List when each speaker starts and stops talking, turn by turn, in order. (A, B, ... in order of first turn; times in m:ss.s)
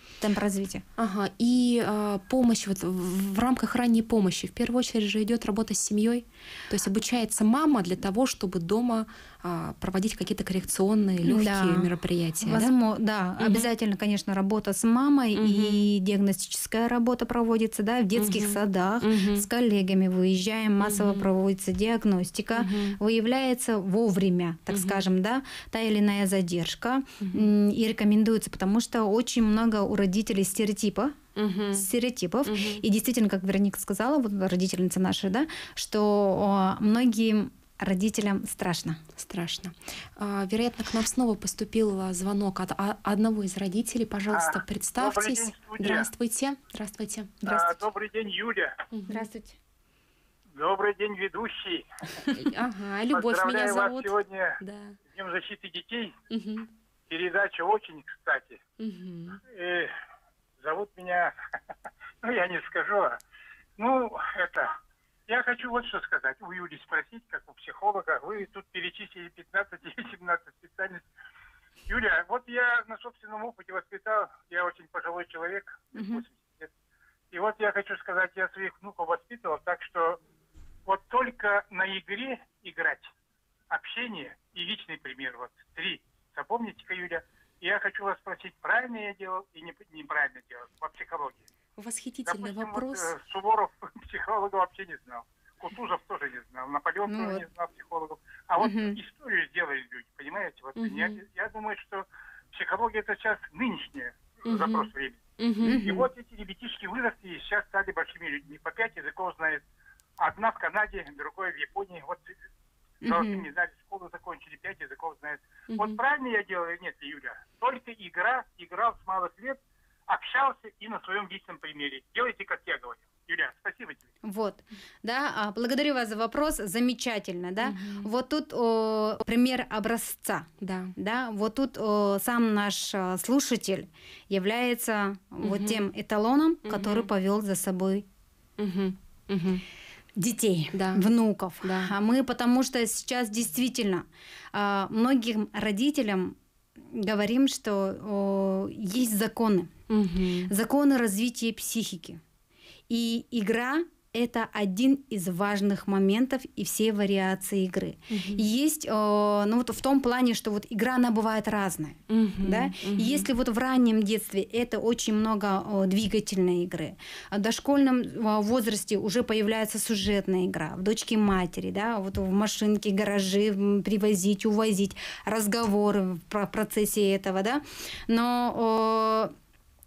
0:00.2-0:00.8 A
0:01.0-0:12.7 B
0:11.2-0:11.9 A
0:12.4-0:31.2 A
0:13.4-0:13.7 B
0:15.3-0:15.8 B
0:18.2-0:19.5 B
0:20.8-0:21.3 B
0:22.5-0:23.0 B
0:24.7-0:25.0 B
0:27.2-0:27.5 B
0:31.4-0:31.9 B
0:31.7-0:39.0 A
0:32.5-0:32.8 B
0:39.2-0:47.7 B
0:44.3-0:46.1 C
0:47.4-0:48.7 C
0:48.9-0:49.3 B
0:49.1-0:49.6 A
0:50.6-0:52.3 C
0:52.3-0:55.0 B
0:53.1-0:56.2 C
0:56.3-0:56.7 B
0:57.1-0:58.6 C
0:58.8-0:59.4 B
0:59.5-0:59.9 C
1:00.6-1:01.3 C
1:02.2-1:03.2 C
1:03.8-1:04.7 C
1:05.3-1:11.1 C
1:11.9-1:16.7 C
1:15.9-1:16.2 A
1:17.3-1:20.2 C
1:20.9-1:23.1 C
1:23.7-1:31.4 C
1:31.8-1:33.1 B
1:32.3-1:49.6 C
1:37.1-1:37.5 A
1:38.6-1:39.0 A
1:40.8-1:41.2 B
1:44.4-1:45.8 B
1:45.6-1:46.1 A
1:50.2-1:52.3 C
1:53.0-1:53.5 A
1:53.0-2:04.0 C
1:55.7-1:56.0 B
2:04.2-2:18.0 A
2:07.6-2:08.1 B
2:10.6-2:10.9 B
2:15.4-2:15.9 B
2:16.6-2:17.1 B
2:18.6-2:19.6 B
2:20.2-2:26.4 A
2:20.7-2:21.0 B
2:21.6-2:21.9 B
2:26.9-2:29.7 A
2:29.9-2:30.5 B
2:30.5-2:32.2 A
2:32.9-2:59.3 A
2:38.1-2:38.4 B
2:42.1-2:43.3 B